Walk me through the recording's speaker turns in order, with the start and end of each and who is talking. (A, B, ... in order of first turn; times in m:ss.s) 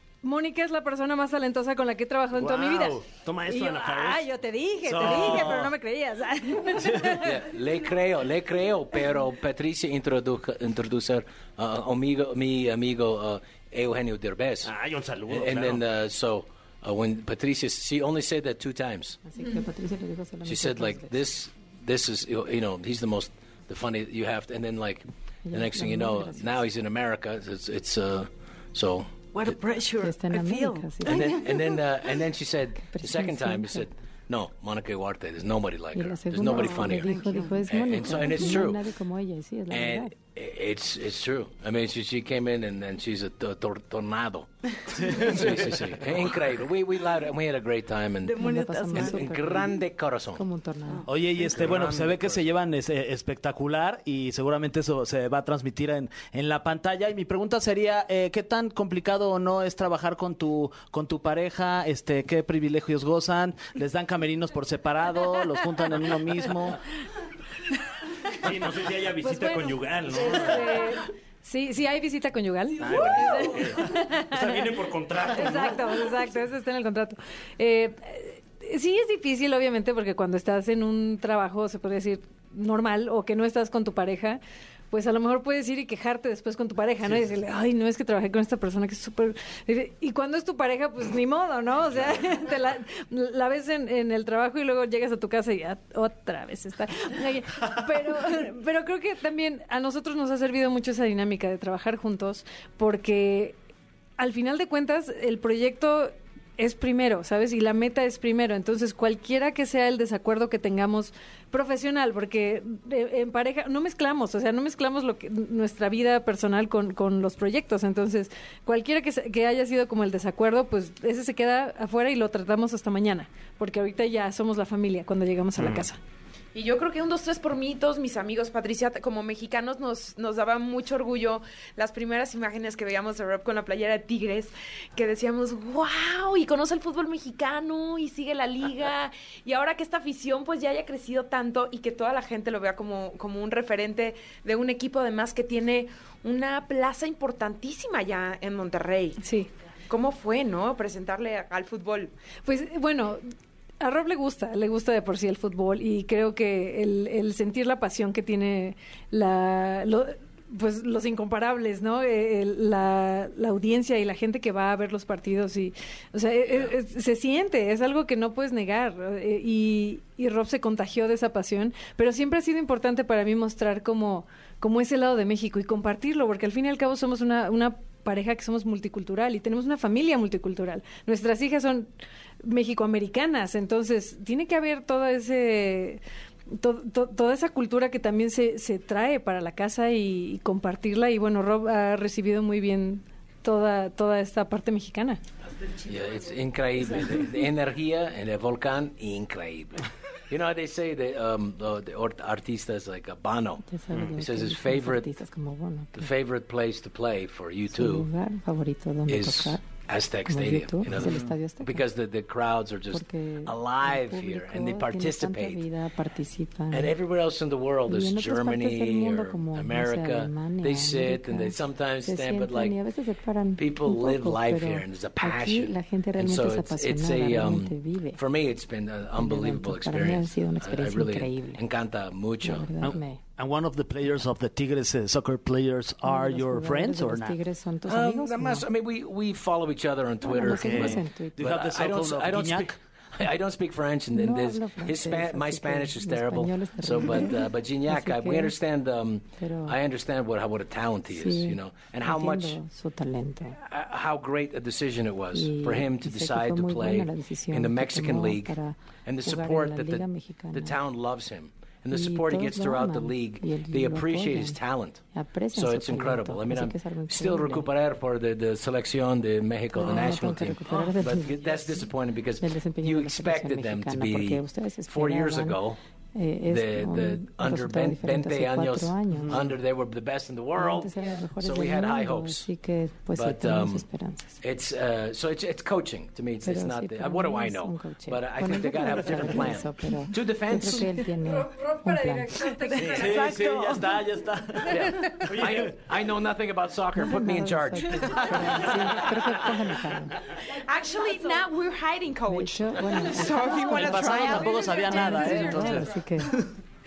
0:00.2-0:07.3 A
0:02.5-0:04.3 B
0:02.6-0:02.9 C
0:04.9-0:05.7 B
0:07.2-0:14.7 D
0:14.6-0:15.8 B
0:15.3-0:19.2 D
0:19.2-0:21.2 E
0:20.4-0:29.6 D
0:25.5-0:26.6 E
0:29.3-0:31.7 F
0:30.0-0:31.5 E
0:31.0-0:37.2 D
0:32.8-0:33.9 E
0:35.9-0:40.1 E
0:36.5-0:37.6 F
0:37.7-0:38.8 D
0:39.7-0:50.4 D
0:45.0-0:45.6 C
0:48.2-0:49.7 F
0:48.3-0:49.8 E
0:50.3-0:51.0 E
0:51.1-1:06.8 C
0:51.3-0:52.4 D
1:08.3-1:10.9 B
1:09.2-1:14.7 A
1:12.8-1:16.1 B
1:15.3-1:24.4 A
1:24.9-1:43.6 A
1:44.2-2:06.0 A
2:05.6-2:05.8 B
2:06.5-2:29.2 G
2:29.2-2:29.5 A
2:29.9-2:32.1 G
2:32.4-2:33.2 A
2:33.8-3:01.9 A
3:02.4-3:15.2 A
3:15.6-3:16.4 F
3:15.8-3:23.6 D
3:23.6-3:26.1 E
3:24.2-3:25.1 D
3:25.9-3:28.1 D
3:27.7-3:29.6 E
3:29.1-3:35.6 D
3:30.3-3:31.8 E
3:32.9-3:37.0 E
3:36.7-3:42.8 D
3:37.9-3:48.2 E
3:43.6-3:52.7 D
3:49.2-3:51.6 E
3:52.4-3:53.2 E
3:52.8-3:57.4 C
3:56.0-3:58.7 E
3:57.8-4:12.6 D
4:00.2-4:01.4 E
4:00.6-4:00.9 B
4:00.6-4:02.8 C
4:04.1-4:08.5 E
4:09.4-4:09.8 E
4:11.1-4:13.6 E
4:13.6-4:25.0 D
4:15.3-4:20.8 E
4:21.9-4:24.6 E
4:25.1-4:27.7 E
4:25.5-4:35.8 D
4:29.7-4:35.6 E
4:36.1-4:39.5 E
4:36.5-4:42.5 D
4:40.6-4:44.4 E
4:43.1-4:43.8 D
4:44.4-4:51.0 D
4:46.4-4:52.5 E
4:51.2-4:53.2 A
4:52.7-4:53.8 F
4:52.9-4:55.6 C
4:52.9-4:53.3 B
4:54.7-4:59.0 D
4:57.0-5:00.2 E
5:00.5-5:05.8 G
5:02.3-5:06.4 E
5:03.7-5:05.9 C
5:04.7-5:05.8 A